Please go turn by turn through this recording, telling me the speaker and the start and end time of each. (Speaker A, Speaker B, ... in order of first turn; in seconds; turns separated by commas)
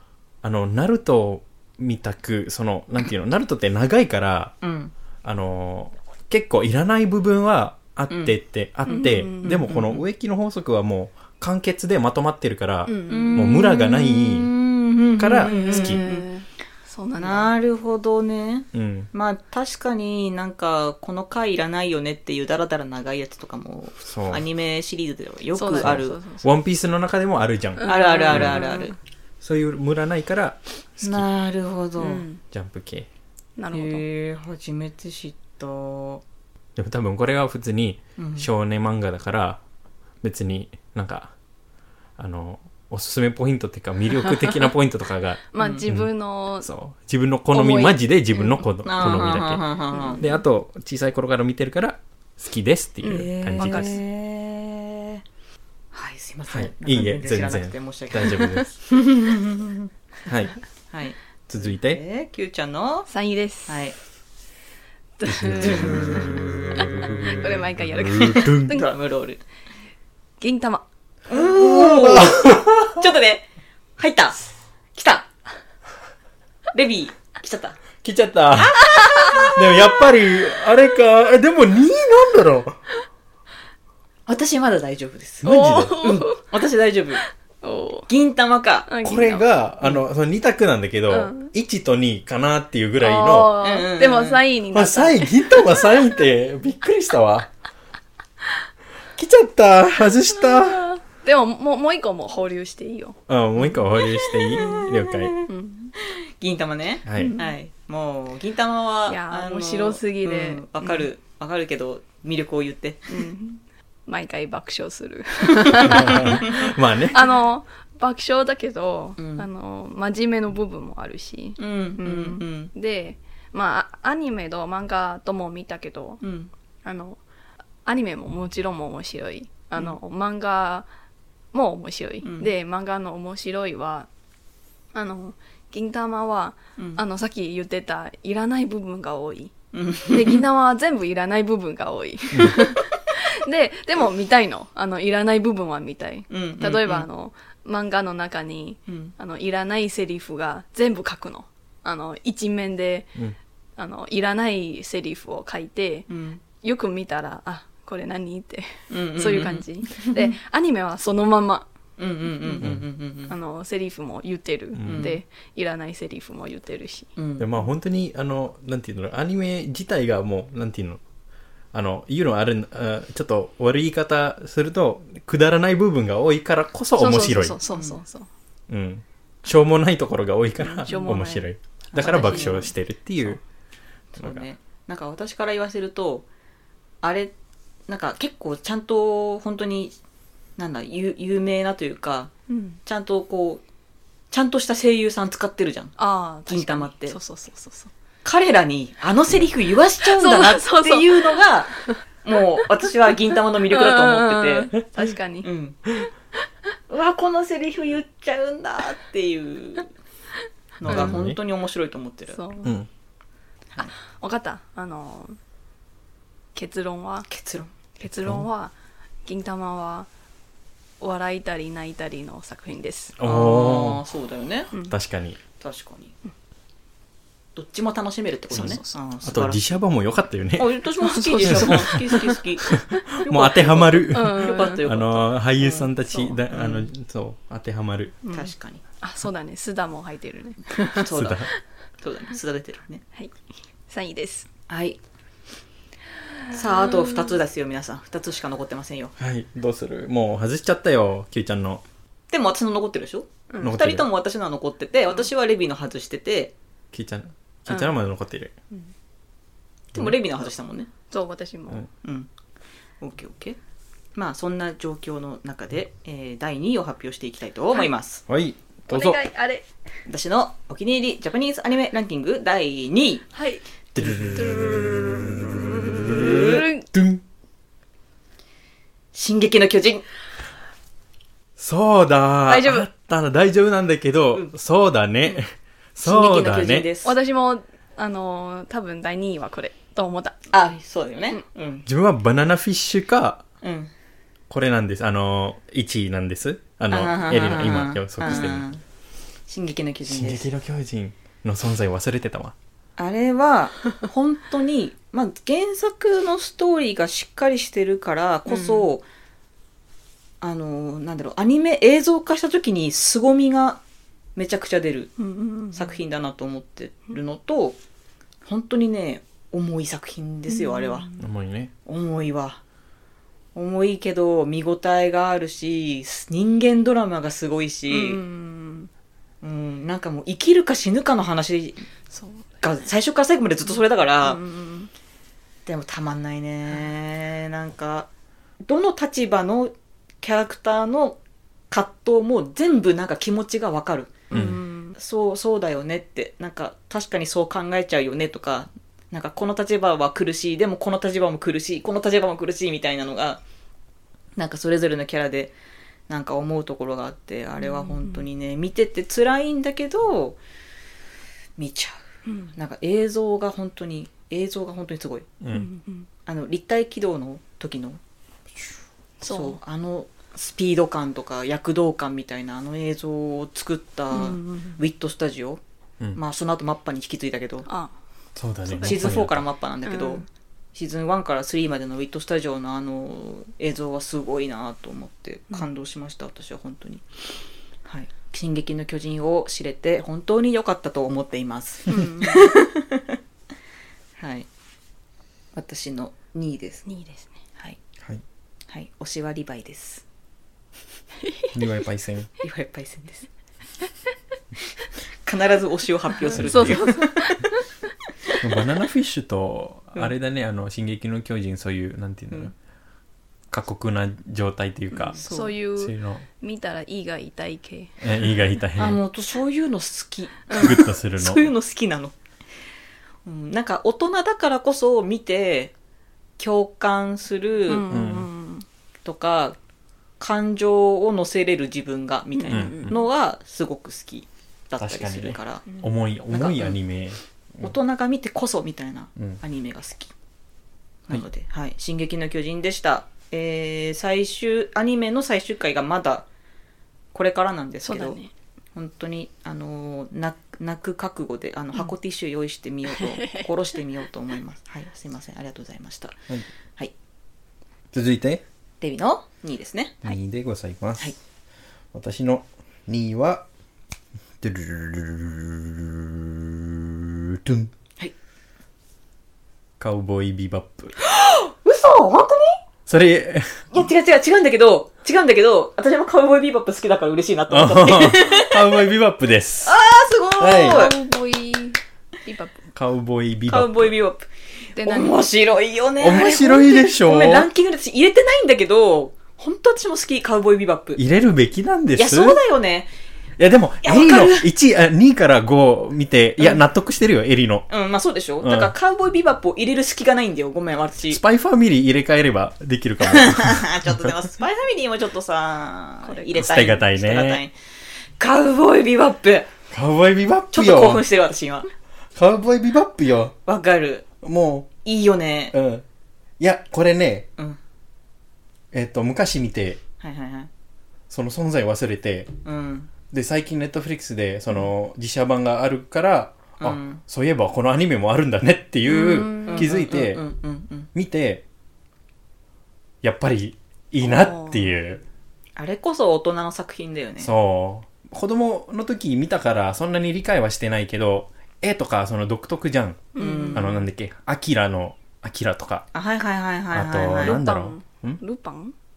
Speaker A: 0.4-4.5, Speaker B: 4.6-4.9, Speaker A: 5.2-14.5, Speaker B: 8.1-8.3, Speaker C: 8.9-9.7, Speaker B: 8.9-10.0, Speaker C: 12.9-13.7, Speaker B: 13.1-16.3, Speaker A: 15.2-16.0, Speaker C: 15.3-17.5, Speaker B: 17.2-26.2, Speaker A: 18.7-19.1, Speaker A: 24.0-24.5, Speaker C: 25.6-26.5, Speaker A: 25.8-28.6, Speaker C: 27.8-28.9, Speaker B: 27.9-28.9, Speaker A: 29.4-31.3, Speaker B: 31.0-32.2, Speaker C: 32.0-32.4, Speaker A: 32.5-33.1, Speaker C: 33.6-34.0, Speaker B: 33.7-36.2, Speaker A: 36.8-39.6, Speaker B: 38.2-38.5, Speaker A: 40.2-41.3, Speaker A: 42.2-46.1, Speaker C: 45.5-46.7, Speaker A: 46.6-49.6, Speaker C: 47.5-49.1, Speaker B: 48.8-50.2, Speaker C: 49.9-50.4, Speaker A: 50.2-54.0, Speaker C: 53.0-54.0, Speaker B: 53.0-55.2, Speaker B: 55.9-59.9, Speaker A: 56.5-58.7, Speaker C: 58.3-58.6, Speaker A: 60.3-60.6, Speaker B: 60.9-63.1, Speaker A: 61.5-62.0, Speaker C: 63.1-63.8, Speaker B: 63.7-64.0, Speaker C: 65.2-68.9, Speaker A: 65.2-68.8, Speaker B: 65.6-66.3, Speaker B: 68.7-69.4, Speaker C: 70.4-70.8, Speaker B: 71.3-73.5, Speaker A: 71.3-73.0, Speaker B: 74.0-75.3, Speaker B: 76.7-77.8, Speaker A: 78.0-82.8, Speaker B: 78.7-79.6, Speaker C: 79.0-79.5, Speaker B: 84.3-87.2, Speaker A: 85.4-86.0, Speaker C: 85.4-86.4, Speaker C: 87.6-88.1, Speaker B: 88.1-88.9, Speaker C: 88.9-89.5, Speaker A: 89.0-93.6, Speaker C: 91.1-91.5, Speaker C: 93.0-95.8, Speaker B: 93.6-94.4, Speaker A: 94.7-97.5, Speaker A: 99.2-100.9, Speaker C: 100.4-103.2, Speaker A: 103.3-105.4, Speaker B: 103.6-113.3, Speaker C: 104.5-104.9, Speaker C: 105.5-105.9, Speaker A: 107.0-107.4, Speaker C: 107.2-107.5, Speaker C: 109.1-111.0, Speaker C: 113.1-126.2, Speaker A: 115.9-117.3, Speaker B: 116.0-116.5, Speaker B: 119.2-119.5, Speaker B: 121.6-122.7, Speaker B: 126.2-126.5, Speaker C: 126.8-127.2, Speaker C: 127.9-130.9, Speaker C: 131.5-134.1, Speaker B: 132.2-132.5, Speaker C: 134.9-139.5, Speaker B: 139.7-140.4, Speaker C: 140.1-153.2, Speaker B: 146.3-147.1, Speaker C: 153.8-161.7, Speaker B: 156.1-156.4, Speaker B: 158.9-160.3, Speaker B: 162.0-163.3, Speaker C: 162.4-162.7, Speaker C: 163.3-167.1, Speaker A: 164.8-165.1, Speaker B: 164.9-165.2, Speaker B: 167.2-167.7, Speaker A: 167.4-171.0, Speaker A: 171.7-177.6, Speaker C: 177.0-178.3, Speaker B: 177.7-178.0, Speaker A: 178.7-183.4, Speaker C: 180.8-181.5, Speaker B: 181.9-182.7, Speaker C: 182.0-182.7, Speaker B: 184.1-186.3, Speaker A: 184.2-184.4, Speaker B: 187.0-187.3, Speaker B: 187.9-190.0, Speaker B: 190.6-192.3, Speaker C: 192.5-192.8, Speaker B: 192.9-193.6, Speaker B: 194.3-195.9, Speaker C: 196.0-197.9, Speaker B: 196.5-197.2, Speaker B: 198.2-204.7, Speaker C: 200.0-202.0, Speaker C: 203.7-205.5, Speaker B: 205.4-205.8, Speaker B: 206.9-209.9, Speaker B: 210.8-212.4, Speaker A: 210.8-211.4, Speaker C: 210.9-211.2, Speaker C: 212.3-212.8, Speaker C: 214.1-215.4, Speaker C: 216.6-217.3, Speaker B: 217.3-217.7, Speaker C: 218.0-218.7, Speaker A: 218.0-218.5, Speaker C: 219.3-220.1, Speaker C: 221.0-223.2, Speaker A: 223.2-224.0, Speaker B: 223.2-224.7, Speaker A: 224.8-225.4, Speaker B: 225.6-226.2, Speaker B: 227.6-229.8, Speaker C: 228.5-229.0, Speaker A: 228.5-230.7, Speaker B: 230.6-235.9, Speaker C: 231.0-232.4, Speaker A: 231.4-232.0, Speaker A: 232.7-238.2, Speaker C: 234.1-234.8, Speaker C: 236.1-236.4, Speaker B: 236.5-236.9, Speaker C: 238.2-241.0, Speaker B: 238.3-238.8, Speaker B: 240.9-241.5, Speaker A: 241.1-241.5, Speaker B: 242.0-243.0, Speaker C: 243.9-244.5, Speaker B: 244.7-245.0, Speaker B: 246.5-249.2, Speaker C: 246.9-247.3, Speaker A: 249.2-251.8, Speaker B: 252.3-256.5, Speaker A: 253.6-254.1, Speaker A: 256.9-258.5, Speaker A: 259.9-260.2, Speaker B: 259.9-260.9, Speaker C: 261.1-261.8, Speaker B: 262.0-262.3, Speaker B: 263.0-263.6, Speaker B: 264.1-268.2, Speaker A: 268.3-269.2, Speaker C: 268.9-269.7, Speaker B: 270.1-273.2, Speaker C: 273.3-273.6, Speaker A: 273.9-277.2, Speaker C: 274.3-276.9, Speaker B: 276.1-276.6, Speaker B: 279.1-280.1, Speaker A: 281.6-286.9, Speaker C: 282.5-282.9, Speaker B: 286.0-287.1, Speaker C: 287.0-290.4, Speaker B: 290.5-291.9, Speaker A: 291.9-293.4, Speaker B: 293.6-293.9, Speaker A: 294.5-298.7, Speaker B: 296.9-298.8, Speaker B: 299.5-300.5, Speaker A: 300.1-302.6, Speaker B: 303.0-309.0, Speaker C: 308.5-308.9, Speaker B: 310.4-313.8, Speaker B: 314.4-315.1, Speaker C: 315.2-316.0, Speaker B: 315.7-317.8, Speaker B: 318.5-321.1, Speaker C: 320.5-321.2, Speaker A: 321.2-321.7, Speaker B: 321.9-322.6, Speaker B: 323.6-328.2, Speaker C: 327.9-328.9, Speaker B: 329.4-331.8, Speaker C: 332.1-332.8, Speaker B: 332.6-334.4, Speaker C: 334.2-334.9, Speaker B: 335.7-338.1, Speaker B: 338.6-341.2, Speaker B: 341.7-344.4, Speaker A: 344.3-344.6, Speaker C: 344.3-345.0, Speaker B: 344.9-353.4, Speaker B: 354.4-355.5, Speaker B: 356.1-360.4, Speaker C: 357.6-358.2, Speaker B: 361.6-362.0, Speaker C: 362.3-362.5, Speaker B: 362.5-365.3, Speaker A: 365.4-365.7, Speaker C: 365.5-366.1, Speaker B: 366.3-368.0, Speaker C: 369.2-369.6, Speaker B: 369.2-375.6, Speaker C: 374.1-374.8, Speaker B: 376.1-377.7, Speaker C: 377.7-377.9, Speaker A: 378.4-379.4, Speaker C: 378.6-379.3, Speaker B: 378.8-387.1, Speaker C: 379.8-380.2, Speaker B: 387.9-393.2, Speaker C: 391.9-392.5, Speaker B: 394.2-394.5, Speaker B: 395.6-396.9, Speaker C: 396.9-397.3, Speaker B: 398.7-400.0, Speaker C: 401.2-401.5, Speaker A: 401.5-402.3, Speaker B: 402.4-403.3, Speaker B: 405.3-407.4, Speaker C: 406.3-407.5, Speaker A: 406.3-406.9, Speaker A: 408.4-412.5, Speaker A: 413.5-415.2, Speaker B: 414.9-415.6, Speaker C: 415.2-418.1, Speaker A: 415.8-416.2, Speaker A: 418.0-419.0, Speaker B: 418.8-422.1, Speaker C: 420.5-420.8, Speaker A: 420.5-421.5, Speaker B: 423.3-425.7, Speaker B: 426.4-427.9, Speaker C: 427.7-428.7, Speaker A: 427.9-428.3, Speaker B: 429.1-429.6, Speaker B: 430.2-435.7, Speaker C: 432.4-432.9, Speaker A: 432.5-433.0, Speaker A: 434.8-437.7, Speaker B: 436.3-436.8, Speaker B: 437.6-440.1, Speaker B: 441.1-446.2, Speaker B: 447.1-448.2, Speaker C: 447.9-448.3, Speaker B: 448.8-456.2, Speaker C: 453.0-453.5, Speaker A: 457.9-458.4, Speaker B: 458.8-460.0, Speaker A: 460.0-461.1, Speaker A: 461.9-463.4, Speaker A: 464.4-467.7, Speaker A: 469.8-470.9, Speaker B: 471.0-472.6, Speaker A: 472.9-473.7, Speaker B: 473.7-478.8, Speaker A: 477.5-479.8, Speaker B: 479.6-480.9, Speaker A: 480.4-480.9, Speaker C: 480.5-482.7, Speaker A: 482.8-483.9, Speaker B: 483.5-491.0, Speaker C: 484.8-485.2, Speaker A: 486.0-487.5, Speaker A: 491.0-492.4, Speaker B: 492.0-492.9, Speaker A: 493.4-497.7, Speaker B: 493.8-494.5, Speaker B: 497.7-501.2, Speaker A: 498.4-498.7, Speaker A: 501.1-504.0, Speaker B: 503.1-507.6, Speaker C: 506.0-506.3, Speaker A: 506.4-507.4, Speaker B: 508.2-509.5, Speaker A: 509.7-511.0, Speaker B: 510.5-511.7, Speaker A: 512.1-513.3, Speaker B: 513.5-514.1, Speaker A: 514.2-514.7, Speaker B: 514.9-515.5, Speaker A: 515.5-515.8, Speaker A: 516.4-517.3, Speaker A: 518.7-519.8, Speaker B: 520.0-520.5, Speaker A: 521.1-522.3, Speaker B: 522.5-522.9, Speaker A: 523.1-530.2, Speaker B: 526.6-527.0, Speaker C: 528.9-529.7, Speaker B: 529.4-530.9, Speaker A: 530.9-531.4, Speaker A: 533.0-535.0, Speaker C: 534.0-534.7, Speaker B: 535.6-537.3, Speaker A: 537.2-545.9, Speaker C: 543.1-543.8, Speaker B: 543.2-543.8, Speaker B: 545.9-547.4, Speaker A: 546.7-548.2, Speaker C: 547.2-548.8